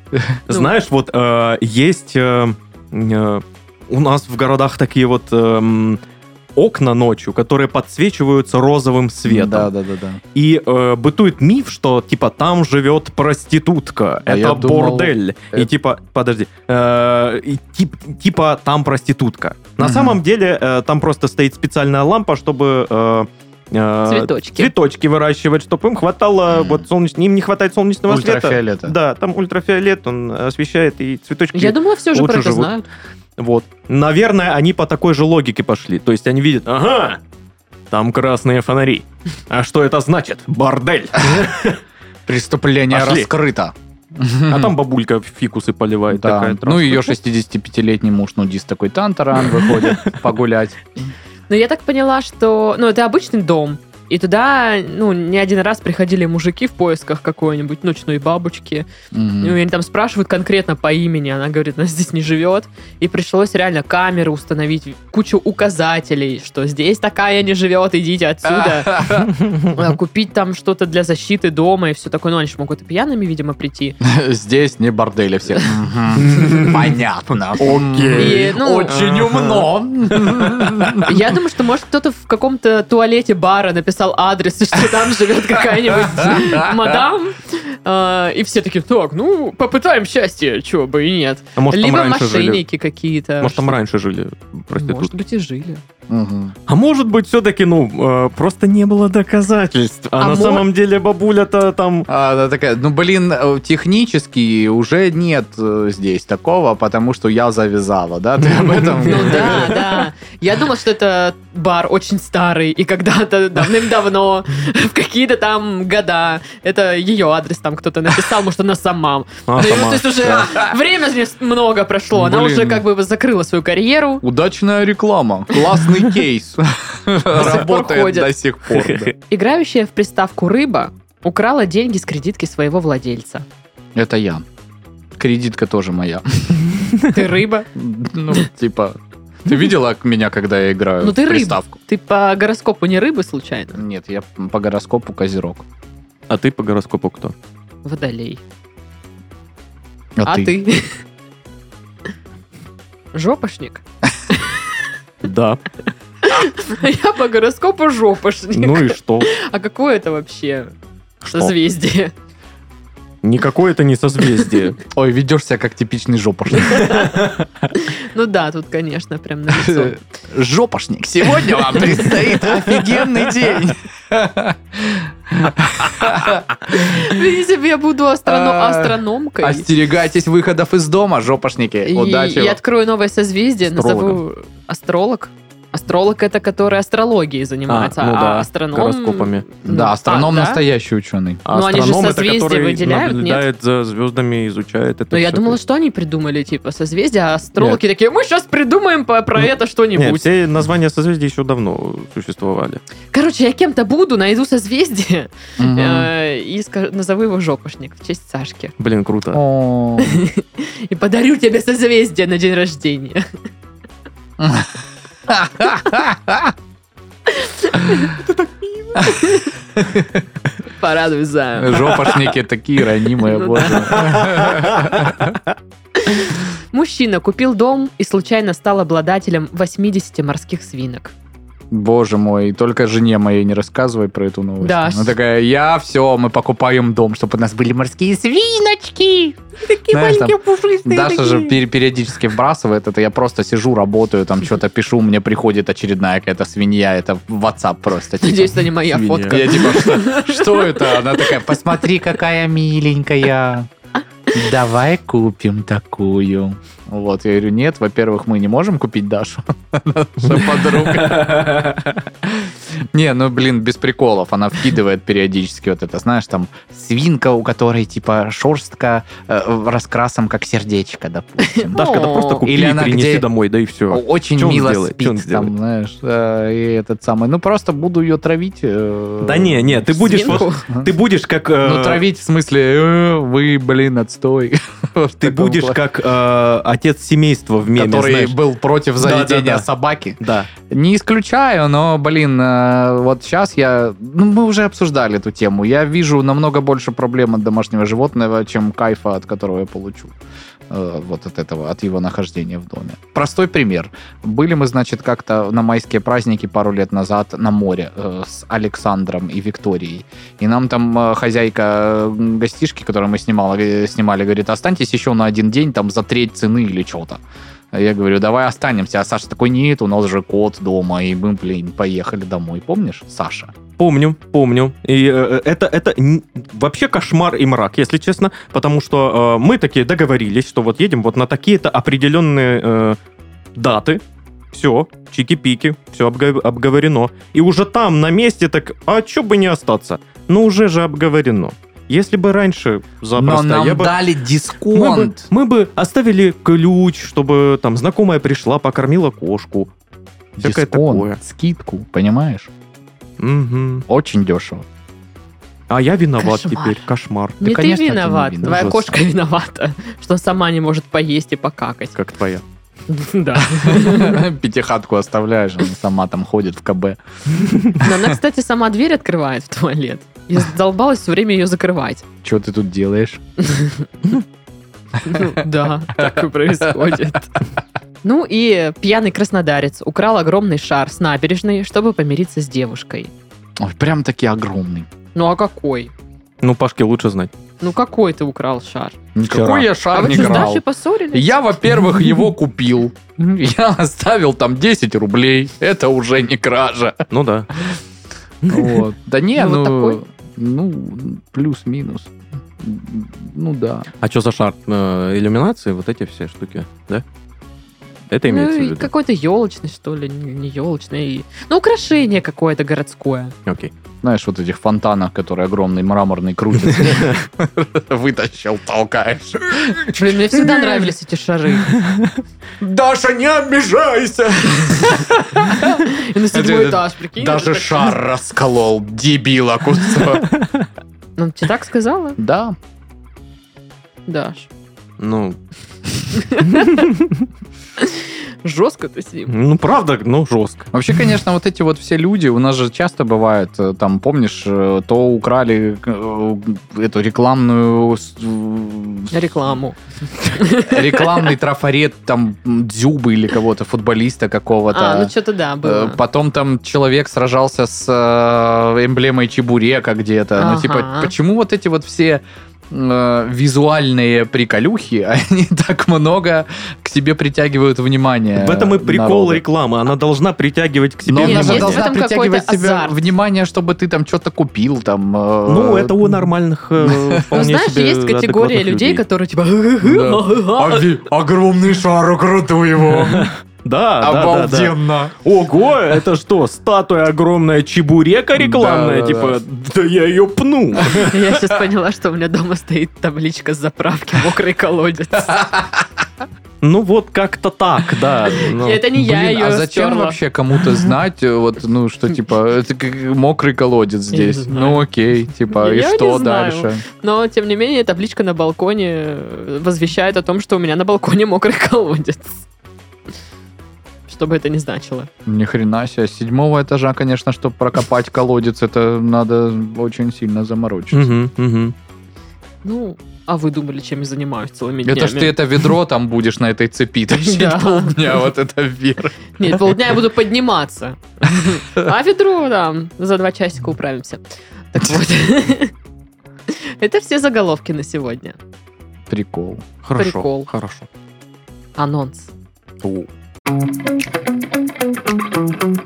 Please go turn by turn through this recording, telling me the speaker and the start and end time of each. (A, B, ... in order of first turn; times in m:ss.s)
0:00.5-0:06.0 A
0:06.6-0:09.7 A
0:09.2-0:10.2 B
0:10.3-0:32.7 A
0:14.2-0:15.7 B
0:19.8-0:20.2 B
0:24.0-0:24.7 C
0:26.5-0:26.8 B
0:28.1-0:28.9 B
0:31.5-0:32.8 C
0:33.4-0:37.2 A
0:37.9-0:41.8 A
0:41.2-0:41.5 B
0:42.3-0:44.7 B
0:42.9-0:43.3 A
0:44.5-0:47.1 A
0:46.1-0:51.1 B
0:49.7-0:50.1 A
0:51.5-0:58.9 C
0:59.1-0:59.6 B
0:59.4-1:14.0 C
1:08.4-1:09.3 B
1:14.0-1:21.2 B
1:16.2-1:16.8 A
1:17.6-1:19.7 A
1:18.1-1:19.0 C
1:21.0-1:33.8 C
1:26.1-1:27.0 B
1:31.6-1:32.6 A
1:33.4-1:35.1 A
1:34.7-1:35.8 C
1:36.1-1:36.5 B
1:36.7-1:42.1 A
1:40.2-1:40.7 C
1:42.1-1:50.0 B
1:49.0-2:04.2 C
1:59.5-2:00.4 A
2:00.4-2:00.7 B
2:02.1-2:02.8 B
2:04.2-2:09.1 B
2:07.3-2:13.4 C
2:13.9-2:14.4 B
2:15.2-2:16.8 B
2:17.1-2:17.7 C
2:17.7-2:21.8 B
2:21.0-2:23.8 C
2:23.7-2:25.6 B
2:26.3-2:27.3 A
2:27.8-2:28.4 C
2:30.2-2:30.5 B
2:30.2-2:31.0 C
2:33.1-2:34.8 C
2:35.2-2:35.6 A
2:36.2-2:40.7 C
2:38.5-2:39.3 A
2:41.2-2:41.5 A
2:41.3-2:42.1 C
2:43.2-2:44.8 A
2:44.9-2:47.1 B
2:46.6-2:47.0 C
2:46.7-2:47.4 A
2:47.7-2:49.9 C
2:49.5-2:57.2 B
2:56.7-2:59.7 C
2:58.2-3:02.6 B
3:01.8-3:10.6 C
3:03.6-3:04.2 A
3:07.7-3:09.5 A
3:09.6-3:11.4 B
3:11.4-3:15.6 A
3:11.5-3:13.4 C
3:15.1-3:20.3 C
3:19.9-3:22.8 A
3:23.1-3:28.7 C
3:25.6-3:26.1 B
3:28.8-3:29.4 A
3:29.3-3:30.2 B
3:30.0-3:33.3 C
3:34.4-3:34.8 B
3:35.3-3:36.5 B
3:37.3-3:38.2 C
3:38.2-3:38.9 A
3:39.0-3:39.5 C
3:39.8-3:40.2 B
3:40.7-3:42.3 C
3:41.6-3:45.4 B
3:43.2-3:44.6 C
3:43.9-3:45.0 A
3:46.0-3:51.1 C
3:51.7-4:13.7 B
3:54.6-3:55.1 C
3:59.6-4:01.6 C
4:08.2-4:11.3 C
4:08.9-4:09.4 A
4:14.3-4:21.7 B
4:20.3-4:21.9 A
4:22.2-4:33.2 B
4:31.5-4:32.4 C
4:31.7-4:35.5 A
4:33.9-4:40.9 B
4:39.2-4:42.0 A
4:40.0-4:40.6 C
4:41.6-4:45.8 B
4:45.2-4:48.4 A
4:47.7-5:00.1 B
4:49.0-4:49.7 A
4:50.2-4:50.5 A
5:00.7-5:23.5 B
5:23.8-5:33.0 A
5:33.5-5:44.0 A
5:43.2-5:45.3 B
5:44.7-5:49.7 A
5:50.4-5:52.5 B
5:50.4-5:51.2 A
5:53.2-5:53.8 A
5:53.9-5:54.6 B
5:55.7-5:57.4 A
5:56.2-5:56.8 C
5:57.4-6:01.9 C
5:57.4-5:59.0 B
5:58.4-5:58.8 A
6:01.9-6:02.4 A
6:02.9-6:04.2 C
6:03.4-6:07.0 B
6:07.8-6:12.0 C
6:12.2-6:13.2 B
6:13.4-6:13.9 C
6:15.0-6:17.3 C
6:16.0-6:16.9 B
6:18.0-6:23.1 C
6:23.6-6:24.9 B
6:25.1-6:25.9 C
6:26.4-6:27.3 A
6:27.6-6:29.0 C
6:29.1-6:30.6 B
6:29.2-6:30.5 A
6:29.9-6:31.4 C
6:31.1-6:37.0 B
6:37.1-6:37.5 A
6:38.4-6:38.8 A
6:38.5-6:43.9 B
6:39.4-6:40.0 C
6:44.0-6:47.0 A
6:48.1-6:48.9 A
6:48.3-6:53.3 C
6:53.4-6:53.7 A
6:54.0-7:00.8 B
6:56.7-6:57.1 A
6:59.9-7:01.7 C
7:01.7-7:02.1 A
7:02.6-7:10.3 B
7:05.6-7:07.9 C
7:10.3-7:10.7 A
7:11.2-7:12.2 C
7:12.2-7:12.5 B
7:14.1-7:14.5 C
7:15.0-7:15.4 A
7:16.1-7:16.9 C
7:16.5-7:17.2 A
7:17.8-7:19.3 C
7:19.3-7:20.7 A
7:20.7-7:29.3 B
7:29.1-7:29.8 C
7:30.3-7:31.3 C
7:30.3-7:35.1 B
7:34.7-7:36.0 C
7:35.6-7:49.4 B
7:40.4-7:41.1 C
7:48.4-7:51.8 A
7:51.0-7:56.2 B
7:51.2-7:52.9 C
7:55.5-7:59.0 A
7:56.8-7:57.3 B
7:57.3-8:00.9 C
7:59.8-8:03.3 B
8:03.0-8:11.3 A
8:04.0-8:05.1 B
8:08.4-8:09.4 B
8:11.0-8:15.5 C
8:15.3-8:15.8 B
8:16.6-8:18.9 A
8:18.4-8:20.2 C
8:18.9-8:26.8 B
8:24.1-8:24.8 C
8:25.5-8:32.4 C
8:34.1-8:35.1 C
8:35.3-8:41.1 B
8:40.9-8:41.7 A
8:42.6-8:45.4 C
8:44.8-8:49.7 B
8:47.1-8:48.1 C
8:49.4-8:55.7 C
8:56.5-8:58.4 C
8:59.1-8:59.6 B
8:59.8-9:00.9 A
9:00.0-9:00.5 C
9:01.8-9:02.3 C
9:02.8-9:03.1 A